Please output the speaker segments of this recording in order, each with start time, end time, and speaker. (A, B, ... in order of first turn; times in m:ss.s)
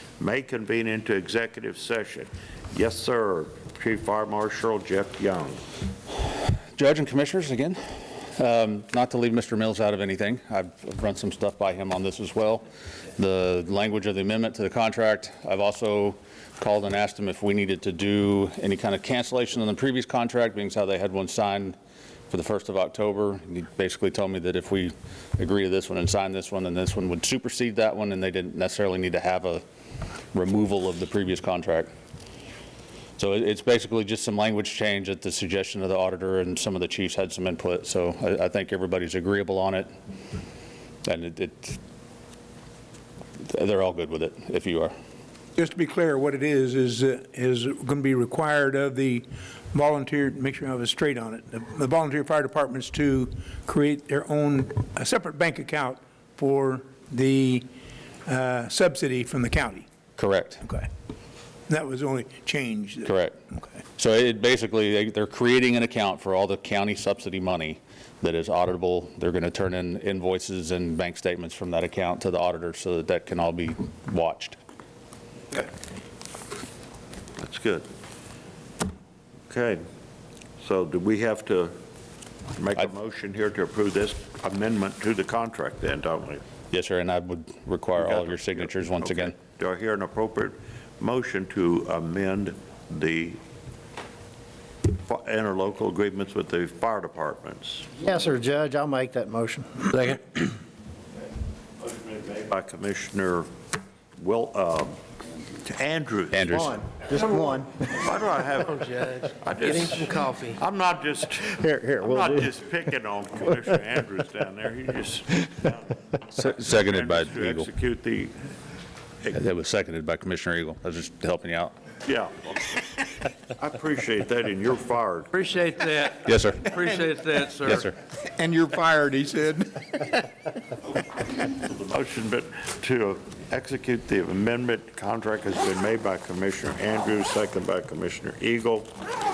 0:00.2-0:05.6 A
0:06.8-0:12.6 B
0:13.2-0:21.8 B
0:22.3-0:29.6 B
0:30.3-0:31.9 B
0:33.2-0:39.9 B
0:41.0-0:41.8 B
0:43.4-0:44.9 B
0:45.6-0:57.7 C
0:58.3-0:59.8 C
1:00.2-1:00.6 B
1:01.7-1:03.1 C
1:03.0-1:03.4 B
1:04.0-1:14.6 B
1:17.4-1:17.9 A
1:19.5-1:19.8 A
1:20.6-1:21.7 A
1:22.6-1:26.4 A
1:26.7-1:29.3 B
1:28.0-1:33.4 A
1:34.9-1:38.0 A
1:38.0-1:40.1 D
1:39.9-1:40.2 E
1:41.8-1:43.5 A
1:44.2-1:45.0 A
1:45.6-1:46.8 A
1:46.3-1:46.7 B
1:46.5-1:47.9 D
1:47.8-1:58.3 A
1:48.8-1:50.5 E
1:51.5-1:52.4 D
1:56.4-1:57.7 B
1:59.3-2:01.7 B
2:02.0-2:02.8 A
2:03.4-2:05.7 A
2:05.4-2:07.9 E
2:06.2-2:06.7 B
2:07.6-2:07.9 B
2:08.2-2:09.9 C
2:11.6-2:18.9 A